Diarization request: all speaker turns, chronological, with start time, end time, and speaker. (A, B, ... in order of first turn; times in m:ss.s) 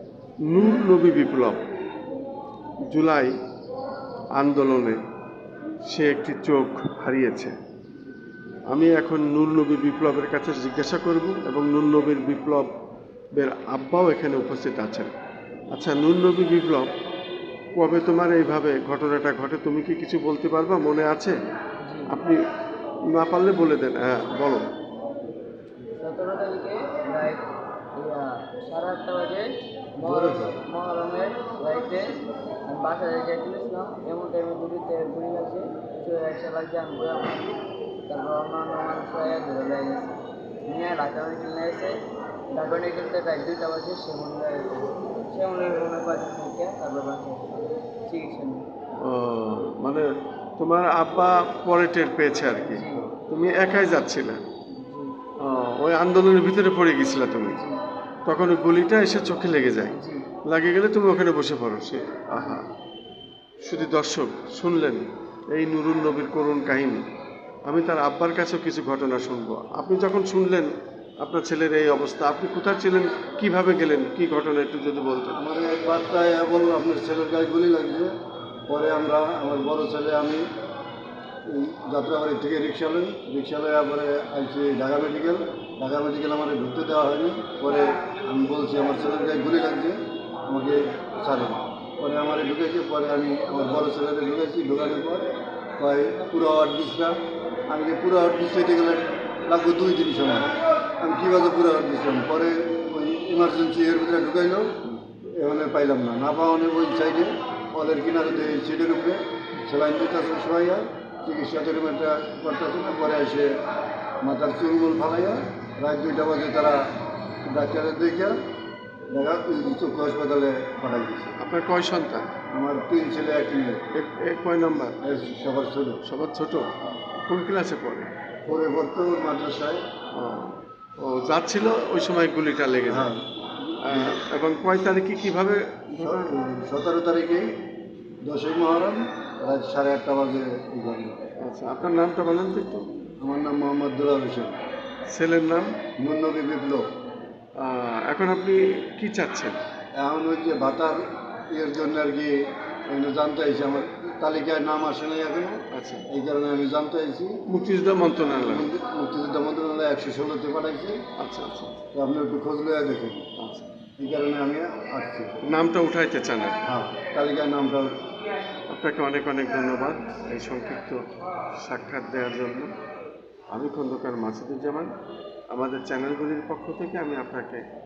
0:00.5-0:01.6 A
0:02.8-0:03.3 A
0:04.4-0:05.0 A
0:05.9-0:07.6 A
0:08.7-0:12.7 A
0:13.4-0:15.1 A
0:15.7-0:16.9 A
0:17.8-0:21.4 A
0:21.8-0:22.2 B
0:22.1-0:22.4 A
0:23.1-0:24.7 A
0:26.0-0:42.0 B
0:30.0-0:30.6 C
0:42.5-0:48.6 B
0:49.0-0:54.4 A
0:52.6-0:53.1 B
0:54.8-0:55.2 B
0:55.4-0:57.6 A
0:57.5-0:57.8 B
0:58.3-1:02.7 A
1:00.0-1:00.3 B
1:02.4-1:02.6 B
1:03.6-1:07.1 A
1:07.7-1:15.4 A
1:15.3-1:18.1 C
1:18.7-1:20.4 C
1:21.5-1:37.2 C
1:37.7-1:44.8 C
1:45.3-1:53.6 C
1:54.2-1:56.8 C
1:57.4-1:58.4 C
1:59.1-2:01.4 C
2:01.4-2:02.3 A
2:02.5-2:03.9 C
2:03.9-2:05.0 A
2:05.0-2:06.0 C
2:06.0-2:06.7 A
2:07.2-2:08.1 A
2:08.5-2:09.8 C
2:10.1-2:13.1 A
2:12.9-2:14.2 C
2:13.8-2:16.2 A
2:15.9-2:17.5 C
2:18.2-2:21.2 C
2:21.4-2:22.9 A
2:23.2-2:24.6 C
2:25.1-2:25.7 A
2:26.0-2:26.9 C
2:27.6-2:29.6 A
2:30.0-2:32.4 C
2:32.9-2:37.4 C
2:35.7-2:36.1 A
2:37.5-2:38.7 A
2:38.3-2:41.0 C
2:41.2-2:41.8 A
2:41.9-2:43.3 C
2:43.4-2:43.7 A
2:44.0-2:45.4 C
2:45.4-2:46.6 A
2:46.6-2:47.9 C
2:48.7-2:51.0 A
2:51.6-2:52.7 A
2:53.5-2:54.9 A
2:55.5-2:57.6 A